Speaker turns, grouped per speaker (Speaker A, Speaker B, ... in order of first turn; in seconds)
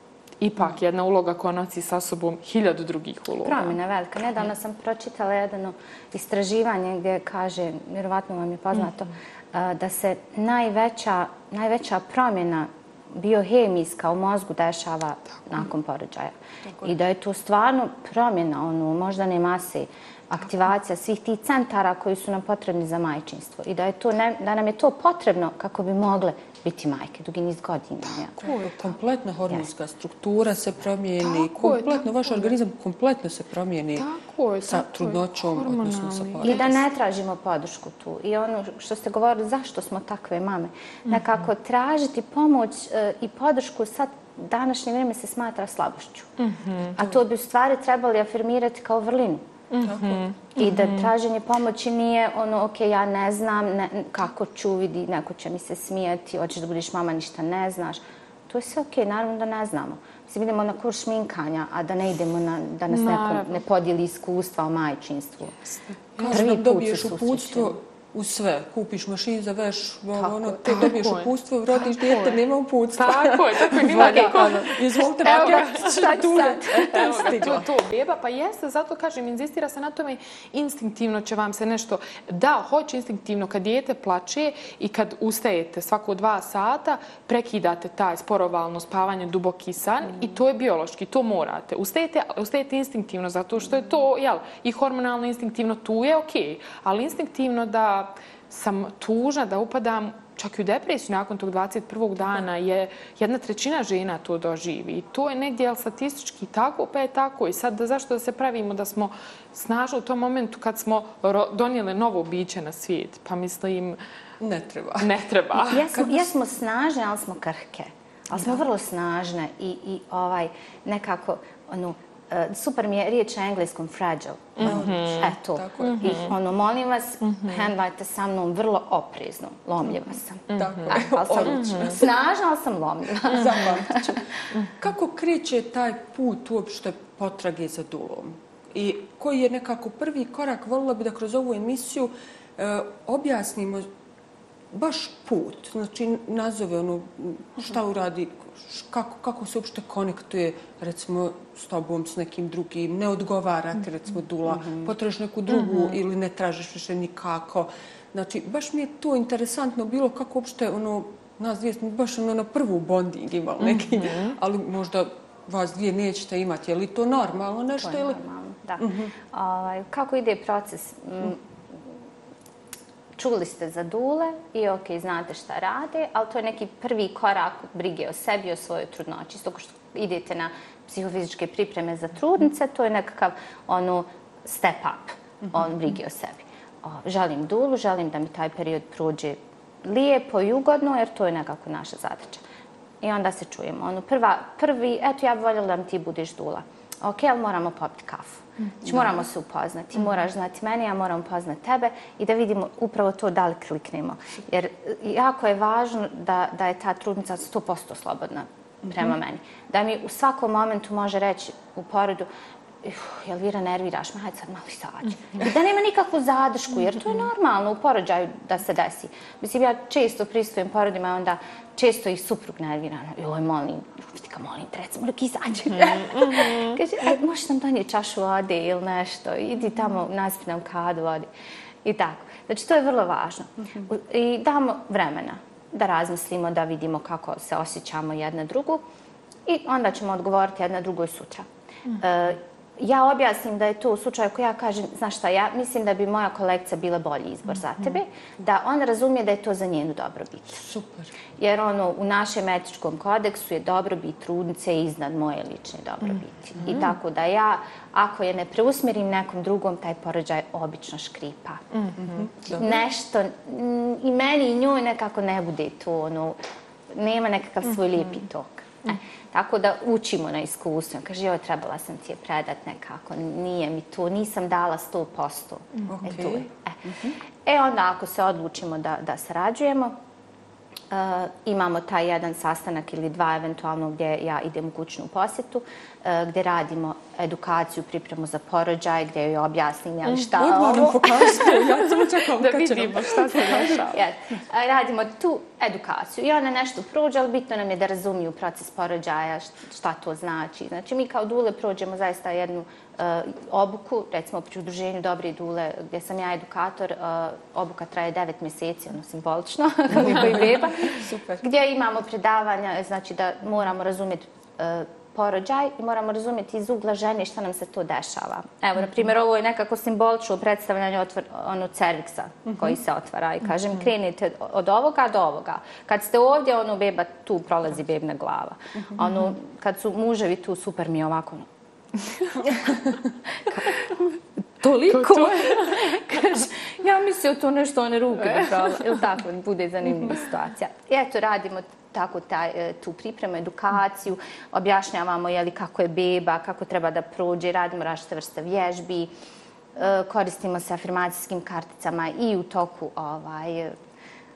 Speaker A: 0.4-3.8, 28.4-28.8, 31.2-32.5, 34.0-36.7, 46.4-47.1, 49.7-51.1, 62.9-63.6, 65.7-66.3, 70.6-72.4, 73.0-114.0, 115.0-115.9, 124.6-126.3, 127.3-127.6, 130.5-132.0, 163.8-164.3, 292.3-294.0, 334.9-335.8
Speaker B: 3.4-28.4, 36.4-46.3, 46.9-49.4, 50.6-65.6, 66.2-67.8, 70.2-70.8, 74.0-74.7, 115.7-134.2, 167.8-171.4, 173.2-192.4, 193.0-212.3, 212.8-231.3, 231.8-238.8, 239.5-250.6, 251.4-261.6, 262.4-266.4, 266.9-276.8, 277.4-280.0, 280.9-291.5, 293.9-331.5, 332.2-332.8, 333.5-334.0, 334.6-349.1, 349.8-353.8
Speaker C: 16.7-16.9, 28.4-34.1, 34.6-36.8, 49.8-50.2, 66.2-77.7, 114.4-115.1, 115.9-116.2, 124.6-126.3, 130.6-132.1, 133.2-134.3, 134.8-143.9, 144.7-168.2, 168.8-169.1, 250.6-251.1, 256.6-256.9, 262.0-262.8, 275.9-277.1, 290.2-293.8, 309.9-311.4